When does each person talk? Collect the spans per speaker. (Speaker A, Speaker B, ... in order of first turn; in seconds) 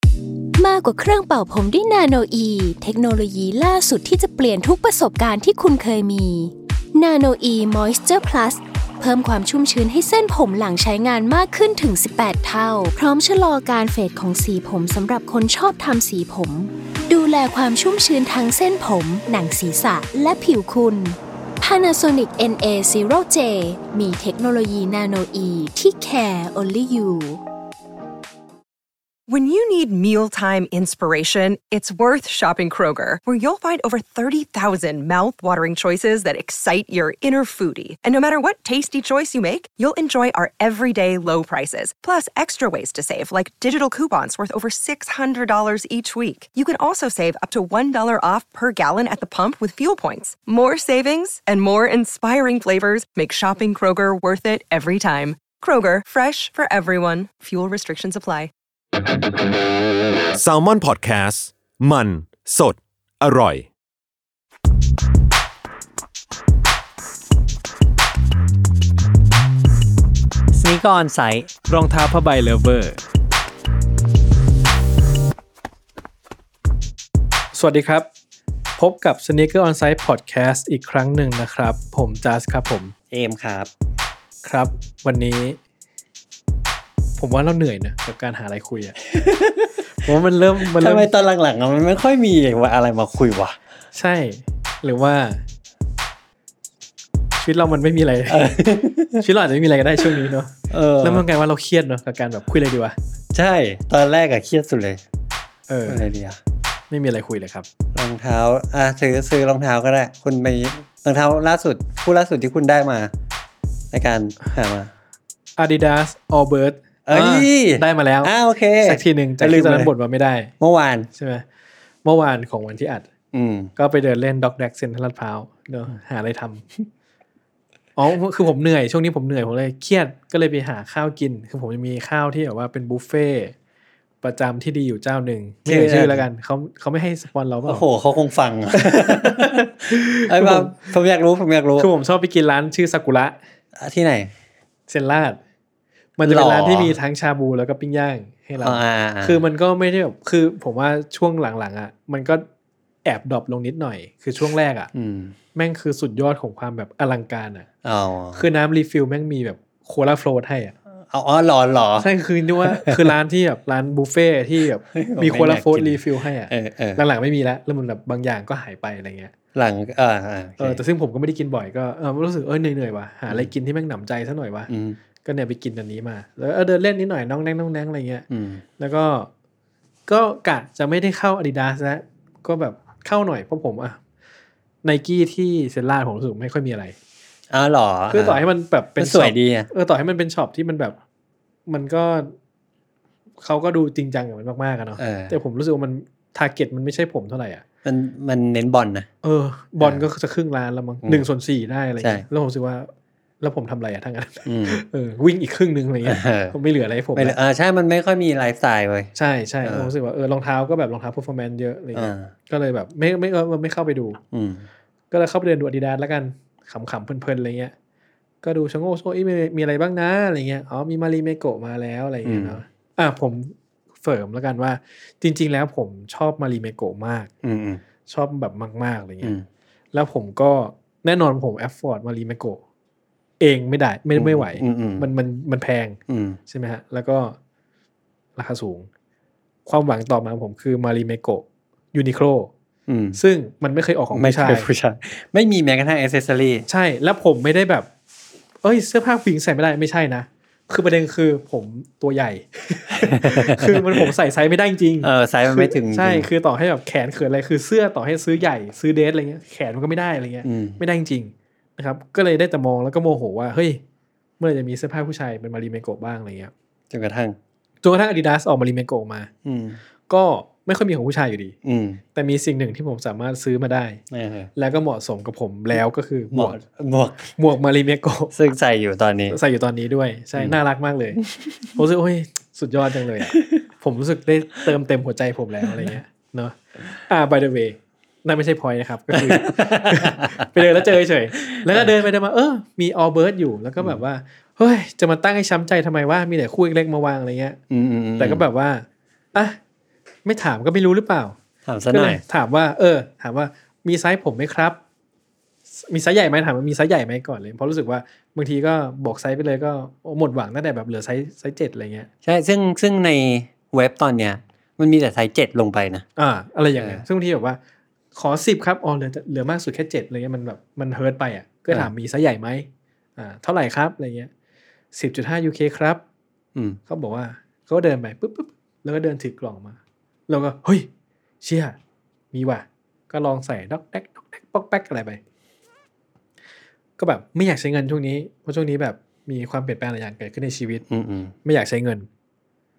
Speaker A: 0.6-27.4
Speaker B: 29.3-58.5
Speaker C: 60.4-63.7
Speaker D: 70.5-71.5, 83.1-83.7, 89.1-93.6, 98.3-99.2, 100.0-101.2, 103.3-105.0, 105.9-106.4, 107.9-113.1, 113.9-114.9, 117.1-119.9, 120.6-121.1, 123.3-123.7, 135.7-136.3, 137.7-141.9, 143.8-144.3, 146.2-147.0, 148.6-149.4, 154.9-155.3, 157.8-158.5, 161.1-163.2, 164.8-167.0, 169.6-170.8, 174.7-175.0, 178.3-178.6, 187.5-188.4, 189.0-189.7, 195.0-195.3, 197.8-199.1, 202.0-202.2, 204.4-204.8, 206.1-206.5, 207.2-209.1, 209.6-209.9, 211.9-212.3, 214.3-214.7, 222.2-222.6, 227.4-227.8, 234.2-235.1, 236.1-236.4, 242.9-243.2, 244.1-246.7, 252.9-254.1, 255.0-256.3, 260.4-260.8, 266.9-267.4, 269.4-269.8, 271.6-272.0, 274.1-274.5, 276.3-277.3, 278.3-279.4, 281.2-281.6, 283.3-283.6, 289.1-290.7, 291.4-291.9, 297.7-298.4, 301.7-302.2, 312.2-316.1, 326.6-326.8, 340.9-341.3
Speaker E: 71.7-73.0, 77.5-78.1, 78.8-82.9, 84.4-85.6, 87.2-89.0, 89.9-91.1, 93.9-95.4, 97.4-98.5, 99.2-103.0, 105.7-106.0, 106.9-107.7, 115.6-118.3, 118.8-120.5, 121.1-121.4, 122.0-123.1, 123.8-126.6, 128.0-133.5, 134.2-137.8, 138.7-140.9, 141.8-143.4, 144.9-145.4, 146.2-152.4, 153.1-154.9, 155.6-157.7, 158.3-160.7, 162.0-169.3, 170.6-174.7, 175.2-178.3, 178.8-179.3, 180.1-184.0, 184.8-186.9, 188.1-191.0, 191.7-192.3, 193.4-197.6, 199.2-202.9, 203.4-207.4, 209.2-214.2, 215.1-217.7, 218.4-227.3, 228.1-229.4, 229.9-232.6, 233.4-237.4, 238.4-238.9, 239.7-242.5, 243.2-244.7, 246.7-247.9, 248.6-263.8, 264.4-266.5, 267.8-269.3, 270.1-271.6, 272.1-274.0, 274.6-276.6, 277.4-278.3, 279.3-281.2, 281.8-297.6, 298.2-299.6, 300.2-301.4, 301.9-304.8, 305.7-312.1, 316.2-317.6, 318.1-324.3, 324.9-326.0, 326.9-330.9, 331.4-331.8, 332.3-335.2, 337.0-340.8, 341.4-342.1